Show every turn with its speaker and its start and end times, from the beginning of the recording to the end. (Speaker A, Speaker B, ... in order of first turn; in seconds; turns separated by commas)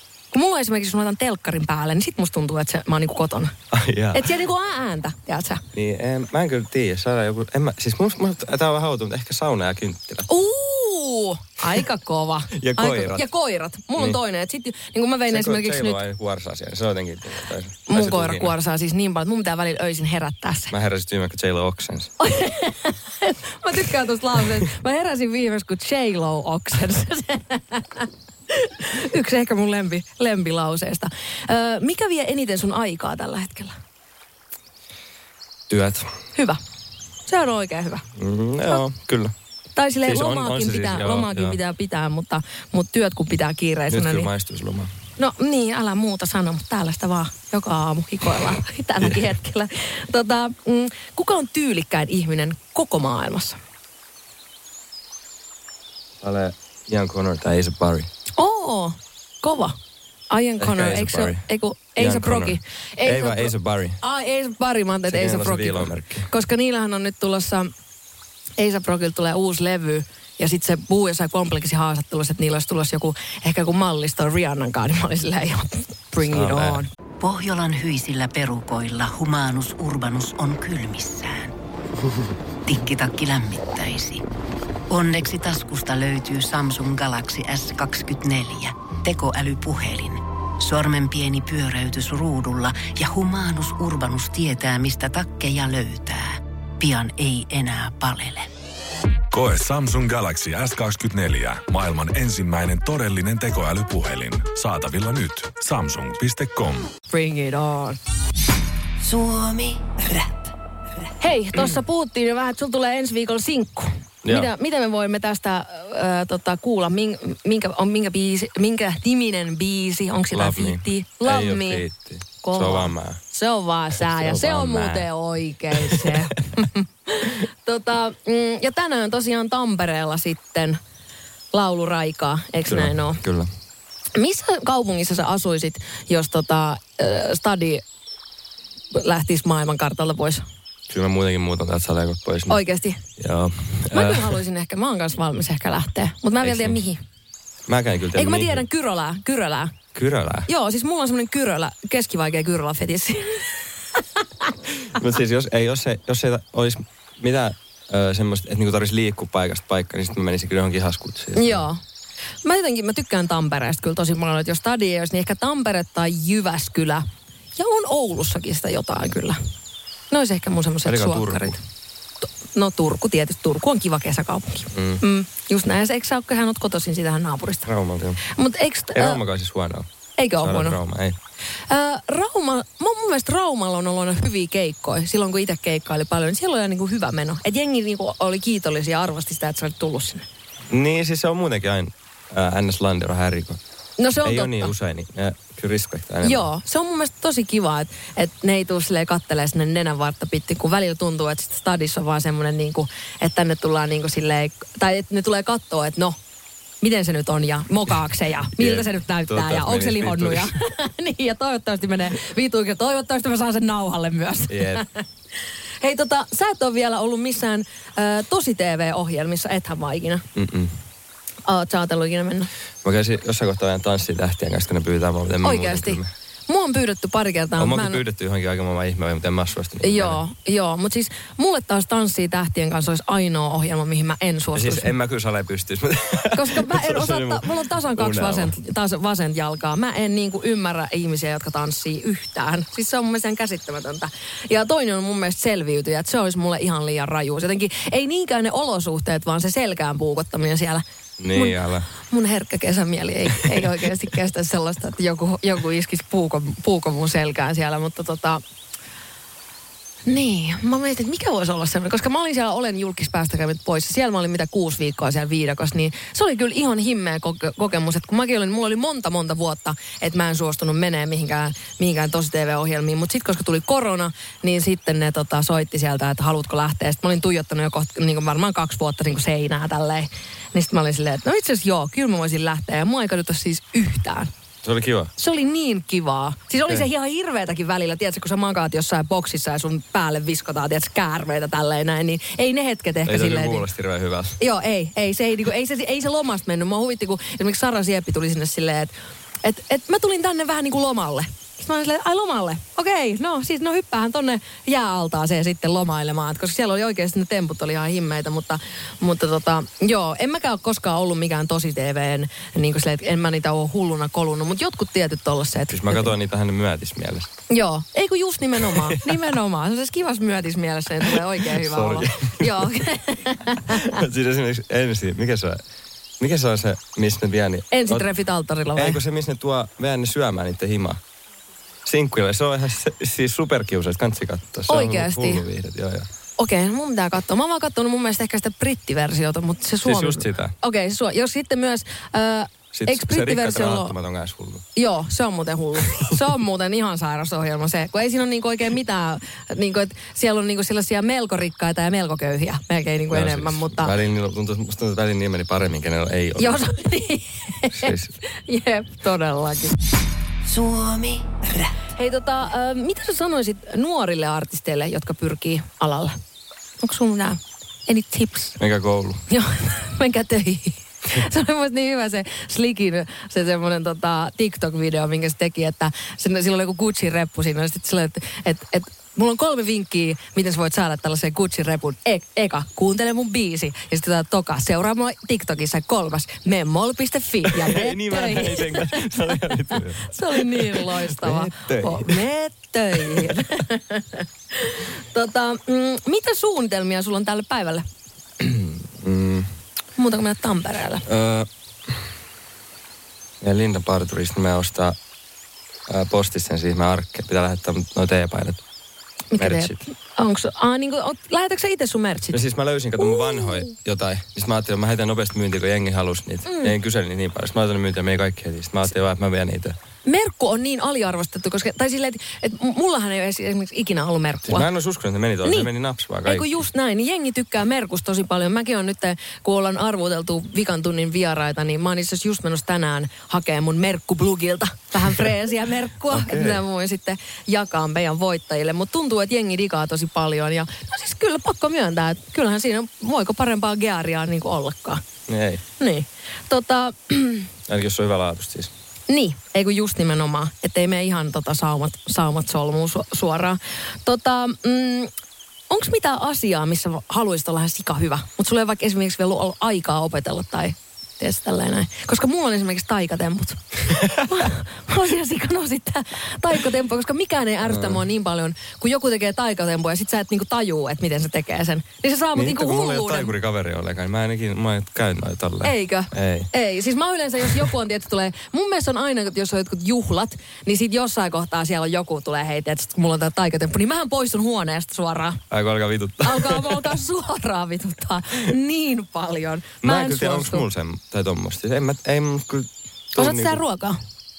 Speaker A: 0.3-3.5, Speaker B: 3.7-4.3, Speaker A: 4.1-5.6, Speaker B: 5.7-10.3, Speaker A: 10.3-16.0, Speaker B: 12.5-13.2, Speaker B: 15.3-18.5, Speaker A: 17.9-20.7, Speaker B: 20.7-22.1, Speaker A: 22.2-33.8, Speaker B: 35.7-36.1, Speaker A: 36.3-36.6, Speaker A: 37.2-38.0, Speaker B: 38.1-39.3, Speaker A: 39.8-44.3, Speaker B: 40.0-41.6, Speaker B: 43.9-44.9, Speaker A: 45.2-53.6, Speaker B: 56.2-58.1, Speaker A: 58.4-59.8, Speaker A: 60.3-67.7, Speaker B: 60.6-61.4, Speaker B: 62.0-64.0, Speaker B: 65.1-66.3, Speaker A: 68.6-76.9, Speaker B: 76.2-76.8, Speaker C: 77.2-81.5, Speaker C: 82.7-84.2, Speaker C: 84.9-98.5, Speaker D: 99.3-106.9, Speaker A: 107.1-108.0, Speaker E: 109.0-110.5, Speaker A: 111.2-121.8, Speaker B: 114.2-114.5, Speaker B: 120.3-123.2, Speaker A: 122.4-130.8, Speaker B: 123.9-125.1, Speaker B: 125.7-126.3, Speaker A: 131.5-133.2, Speaker B: 132.7-133.5, Speaker A: 134.1-137.8, Speaker A: 138.9-140.4, Speaker B: 140.9-142.6, Speaker A: 142.5-143.0, Speaker B: 143.2-144.4, Speaker A: 143.9-147.0, Speaker B: 146.4-146.8, Speaker B: 147.7-148.6, Speaker A: 148.1-149.8, Speaker B: 149.9-150.5, Speaker A: 150.5-154.5, Speaker B: 154.9-161.7, Speaker A: 161.3-161.8, Speaker A: 162.4-169.4, Speaker A: 170.1-171.6, Speaker B: 170.8-171.6, Speaker A: 172.2-177.7, Speaker B: 174.7-175.0, Speaker B: 177.6-178.2, Speaker A: 178.2-179.2, Speaker B: 178.9-181.2, Speaker A: 180.2-180.8, Speaker A: 181.7-190.2, Speaker B: 190.7-193.6, Speaker A: 194.0-194.7, Speaker B: 194.2-196.5, Speaker A: 196.2-206.2, Speaker A: 206.8-215.0, Speaker B: 208.5-210.6, Speaker B: 214.5-214.8, Speaker A: 215.8-220.2, Speaker B: 220.3-220.8, Speaker A: 221.4-222.5, Speaker B: 222.8-226.1, Speaker A: 225.4-228.0, Speaker B: 227.6-230.2, Speaker A: 229.8-234.9, Speaker B: 234.5-238.5, Speaker A: 236.3-258.4, Speaker B: 251.2-251.9, Speaker A: 260.1-284.3, Speaker B: 284.6-285.1, Speaker A: 285.2-293.7, Speaker B: 293.1-294.4, Speaker A: 294.4-298.9, Speaker A: 299.4-316.1, Speaker B: 315.7-317.3, Speaker A: 317.5-324.0, Speaker B: 318.6-319.2, Speaker B: 321.0-322.7, Speaker B: 323.7-325.6, Speaker B: 326.2-328.1, Speaker A: 327.7-329.0, Speaker B: 328.7-331.0, Speaker B: 331.8-336.1, Speaker A: 334.7-335.4, Speaker A: 336.4-343.9, Speaker B: 339.8-340.5, Speaker B: 342.7-344.6, Speaker A: 344.7-353.9, Speaker B: 353.1-356.6, Speaker A: 356.4-359.7, Speaker B: 357.7-358.1, Speaker E: 360.4-361.8, Speaker A: 361.9-366.1, Speaker A: 366.8-368.6, Speaker B: 368.6-369.2, Speaker A: 369.3-397.8, Speaker B: 387.4-392.2, Speaker B: 392.9-393.4, Speaker B: 398.4-399.5, Speaker A: 400.0-401.0, Speaker B: 401.0-402.1, Speaker B: 403.4-405.0, Speaker B: 405.9-408.6, Speaker A: 409.3-412.4, Speaker B: 409.4-409.8, Speaker B: 412.3-419.8, Speaker A: 413.1-413.6, Speaker A: 416.4-416.7, Speaker A: 420.1-424.7, Speaker B: 424.4-426.6, Speaker A: 425.4-425.7, Speaker A: 426.2-445.0, Speaker B: 436.1-436.6, Speaker B: 445.3-445.6, Speaker A: 445.8-447.5, Speaker B: 447.7-448.7, Speaker A: 449.1-455.1, Speaker A: 455.7-473.3, Speaker B: 467.6-468.0, Speaker B: 472.3-476.5, Speaker A: 475.6-485.4, Speaker B: 485.5-486.9, Speaker A: 486.2-490.6, Speaker B: 489.8-493.6, Speaker A: 493.1-494.0